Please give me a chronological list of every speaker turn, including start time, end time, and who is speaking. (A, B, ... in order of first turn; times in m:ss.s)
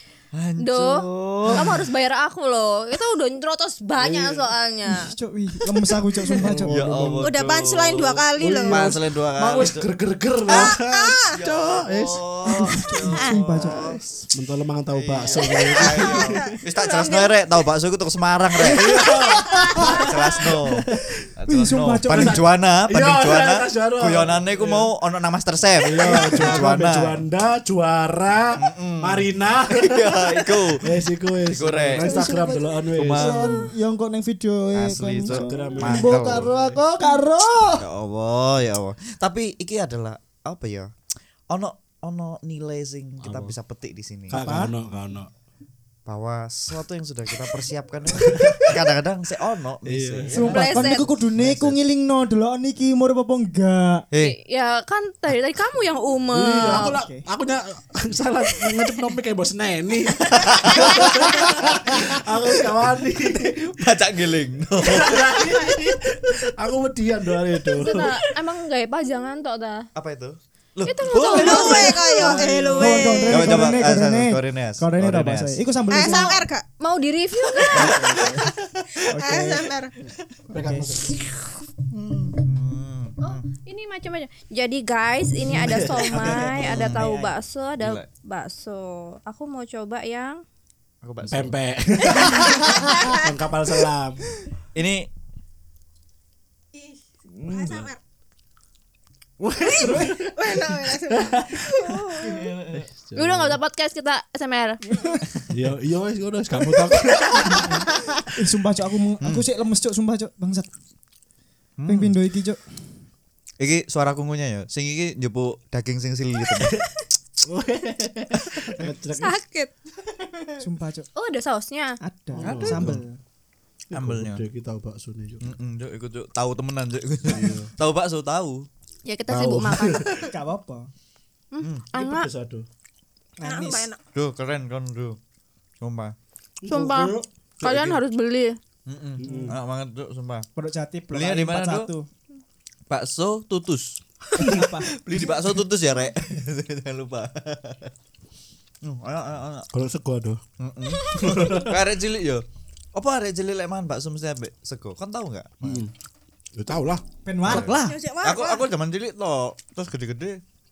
0:00.3-0:01.8 A
0:00.6-0:05.1 B
0:04.0-0:04.5 C
0:04.9-0:07.3 D
0:06.4-0:09.9 A
0:07.2-0:08.9 E
0:08.4-0:12.2 C
0:10.5-0:11.3 E
0:11.3-0:14.0 A
0:12.5-0:14.0 D
0:14.1-0:16.6 C
0:14.9-0:19.1 A
0:15.3-0:17.3 E
0:18.7-0:20.2 C
0:19.1-0:20.4 D
0:19.8-0:20.8 A
0:21.4-0:27.2 A
0:21.5-0:22.4 D
0:22.1-0:24.9 C
0:25.8-0:30.2 C
0:28.6-0:30.8 A
0:30.8-0:33.4 C
0:31.5-0:32.2 A
0:32.0-0:37.8 D
0:32.9-0:33.7 A
0:34.7-0:36.5 A
0:35.3-0:36.8 C
0:37.8-0:40.9 A
0:41.5-0:44.4 A
0:43.2-0:43.5 C
0:44.3-0:45.3 C
0:44.3-0:44.7 D
0:46.1-0:50.6 A
0:48.2-0:48.8 C
0:49.9-0:51.8 C
0:50.3-0:54.1 D
0:50.5-0:51.1 B
0:54.2-0:56.9 B
0:56.3-1:03.8 C
0:56.6-0:57.2 D
1:00.2-1:02.1 A
1:03.4-1:05.6 A
1:04.8-1:08.1 C
1:07.8-1:09.9 B
1:10.0-1:12.0 A
1:10.9-1:12.3 B
1:11.3-1:13.8 E
1:12.0-1:13.2 C
1:12.8-1:16.5 D
1:13.3-1:15.6 A
1:15.9-1:16.7 E
1:16.8-1:17.9 B
1:17.5-1:19.9 E
1:17.7-1:18.5 D
1:17.8-1:19.0 A
1:19.1-1:19.7 D
1:20.5-1:20.9 D
1:20.5-1:21.2 C
1:21.9-1:23.4 A
1:23.2-1:30.4 B
1:25.5-1:26.6 C
1:25.6-1:27.3 D
1:26.6-1:27.1 A
1:27.8-1:28.1 A
1:31.0-1:31.6 A
1:31.3-1:34.3 C
1:32.1-1:33.0 D
1:32.2-1:33.3 E
1:34.8-1:35.1 A
1:36.7-1:38.0 E
1:37.4-1:37.8 D
1:37.7-1:37.9 C
1:39.4-1:42.1 C
1:39.6-1:42.5 E
1:42.2-1:42.9 A
1:42.7-1:43.6 C
1:43.2-1:44.8 B
1:45.5-1:47.9 C
1:47.5-1:50.7 D
1:51.8-1:52.1 A
1:51.9-1:52.8 D
1:53.6-1:56.8 A
1:56.6-1:56.9 C
1:57.4-1:59.4 C
1:59.2-1:59.7 B
2:00.6-2:01.1 D
2:01.2-2:02.0 B
2:02.0-2:03.2 D
2:02.3-2:03.0 C
2:02.4-2:03.0 A
2:03.9-2:05.5 C
2:03.9-2:04.4 A
2:05.4-2:08.7 A
2:07.3-2:07.7 C
2:09.1-2:10.1 B
2:09.3-2:09.7 A
2:09.6-2:10.2 C
2:10.1-2:10.9 D
2:11.5-2:12.3 B
2:12.0-2:12.7 C
2:13.4-2:13.9 D
2:13.4-2:14.0 E
2:14.1-2:15.2 A
2:15.8-2:16.1 A
2:16.6-2:18.0 C
2:16.7-2:18.6 B
2:18.9-2:20.5 A
2:19.2-2:19.6 C
2:19.2-2:19.5 D
2:20.6-2:22.1 D
2:21.1-2:21.9 A
2:22.9-2:27.9 A
2:24.4-2:25.0 D
2:28.8-2:29.7 A
2:29.7-2:30.4 C
2:30.6-2:35.9 A
2:31.1-2:31.8 C
2:35.6-2:35.9 C
2:36.6-2:37.0 C
2:37.2-2:38.0 D
2:37.4-2:40.4 A
2:37.8-2:38.6 E